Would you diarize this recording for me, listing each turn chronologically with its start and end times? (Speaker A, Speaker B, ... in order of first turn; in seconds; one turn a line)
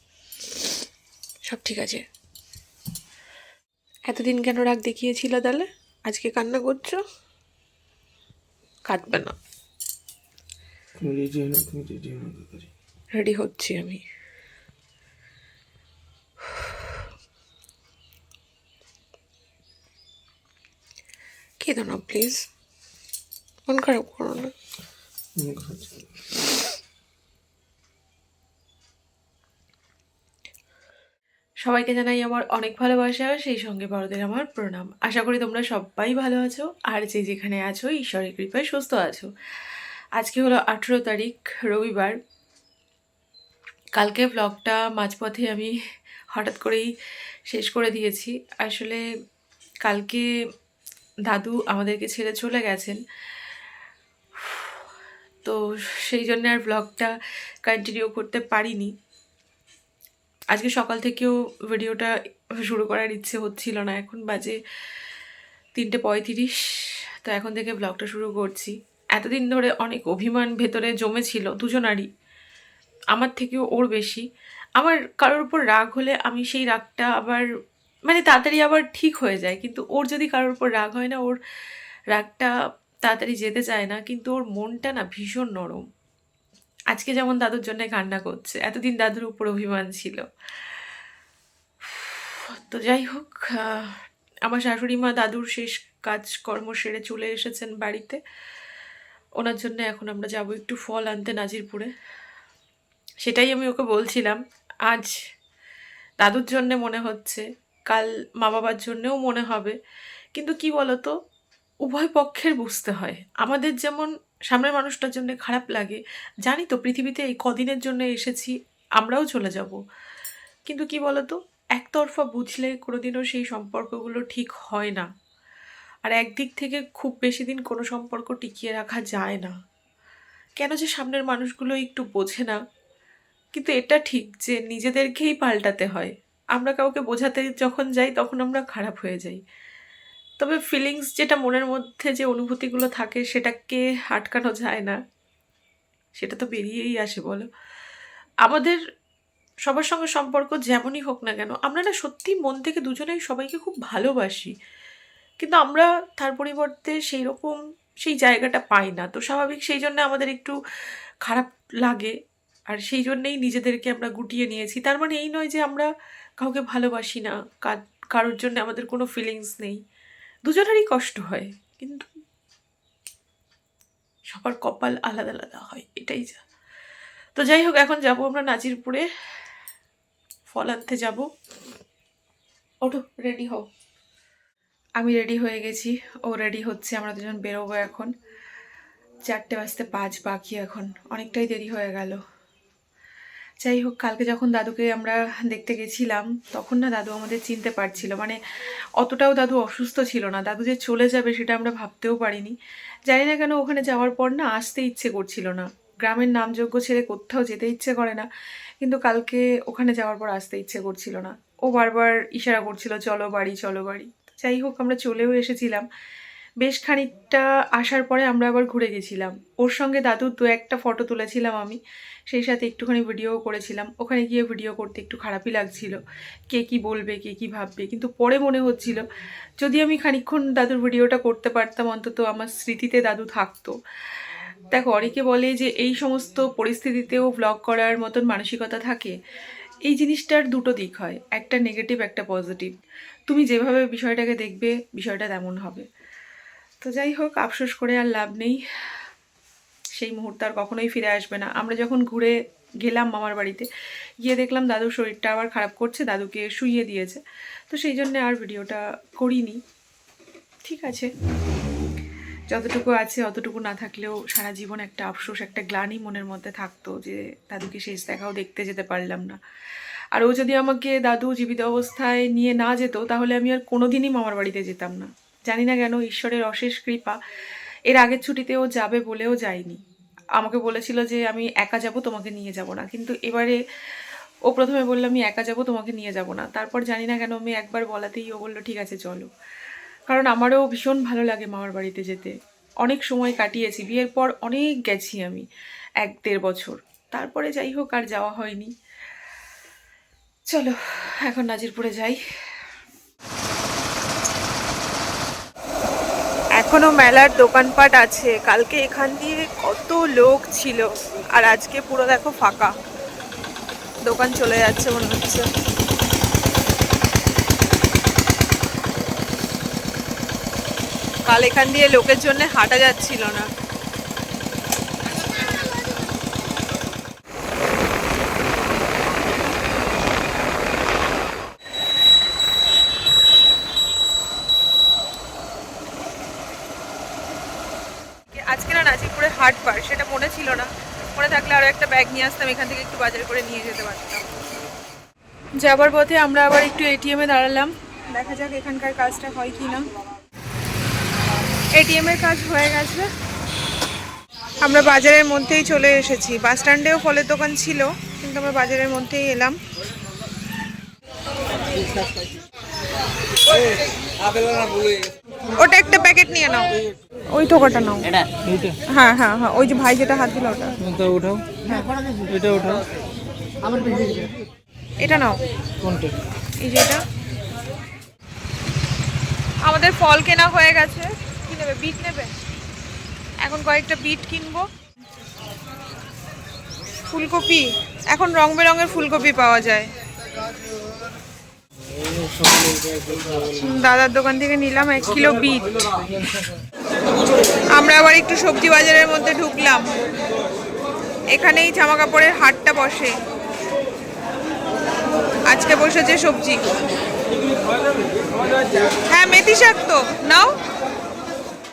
Speaker A: 1.4-2.0
Speaker A: 4.1-7.0
Speaker A: 8.8-9.3
Speaker B: 11.0-12.7
Speaker A: 13.1-14.0
Speaker A: 21.6-22.4
Speaker A: 23.7-24.5
Speaker B: 25.4-25.9
Speaker A: 31.6-39.3
Speaker A: 40.2-42.2
Speaker A: 44.0-45.7
Speaker A: 46.3-46.9
Speaker A: 47.5-49.0
Speaker A: 49.8-50.3
Speaker A: 51.3-53.0
Speaker A: 55.4-57.1
Speaker A: 57.7-58.9
Speaker A: 60.5-64.6
Speaker A: 65.8-72.1
Speaker A: 73.1-74.2
Speaker A: 74.8-77.5
Speaker A: 78.1-81.4
Speaker A: 82.1-82.5
Speaker A: 83.0-85.8
Speaker A: 86.9-90.2
Speaker A: 91.9-93.9
Speaker A: 94.5-98.2
Speaker A: 99.4-101.9
Speaker A: 103.2-105.1
Speaker A: 106.2-109.8
Speaker A: 110.4-111.1
Speaker A: 111.8-119.8
Speaker A: 120.7-125.1
Speaker A: 126.0-129.5
Speaker A: 130.6-132.6
Speaker A: 133.5-139.4
Speaker A: 140.4-145.0
Speaker A: 146.2-147.5
Speaker A: 148.4-148.8
Speaker A: 149.7-154.5
Speaker A: 155.4-160.5
Speaker A: 161.2-162.1
Speaker A: 162.7-165.9
Speaker A: 166.4-169.8
Speaker A: 170.4-172.0
Speaker A: 174.3-176.4
Speaker A: 177.3-179.0
Speaker A: 180.5-181.3
Speaker A: 182.8-183.7
Speaker A: 185.0-188.1
Speaker A: 189.2-192.2
Speaker A: 193.6-198.4
Speaker A: 199.0-202.6
Speaker A: 203.1-208.3
Speaker A: 208.8-215.8
Speaker A: 216.6-221.8
Speaker A: 222.3-229.0
Speaker A: 229.6-233.8
Speaker A: 234.7-239.1
Speaker A: 239.8-242.7
Speaker A: 243.3-245.8
Speaker A: 246.8-248.6
Speaker A: 250.0-253.7
Speaker A: 254.2-259.6
Speaker A: 260.6-261.1
Speaker A: 262.5-269.4
Speaker A: 270.1-277.2
Speaker A: 277.9-279.8
Speaker A: 280.4-283.6
Speaker A: 284.5-289.3
Speaker A: 290.1-295.5
Speaker A: 296.0-298.7
Speaker A: 300.5-302.2
Speaker C: 306.6-310.5
Speaker A: 308.3-310.8
Speaker A: 311.5-312.1
Speaker C: 311.5-312.6
Speaker C: 314.1-315.4
Speaker C: 321.3-323.4
Speaker A: 338.5-340.6
Speaker C: 338.8-340.5
Speaker C: 341.2-344.2
Speaker A: 345.6-347.7
Speaker C: 348.1-349.8
Speaker C: 351.8-353.1
Speaker C: 354.6-359.6
Speaker C: 365.6-366.7
Speaker C: 367.3-368.1
Speaker B: 368.4-368.8
Speaker C: 368.9-370.7
Speaker B: 370.8-371.5
Speaker B: 372.3-372.8
Speaker C: 375.0-375.4
Speaker B: 375.8-376.2
Speaker C: 376.6-377.0
Speaker C: 379.7-382.3
Speaker C: 383.4-384.6
Speaker C: 387.1-389.9
Speaker B: 392.4-393.4
Speaker C: 393.6-395.8
Speaker C: 397.8-399.9
Speaker C: 401.3-403.1
Speaker C: 405.5-406.6
Speaker C: 409.1-410.5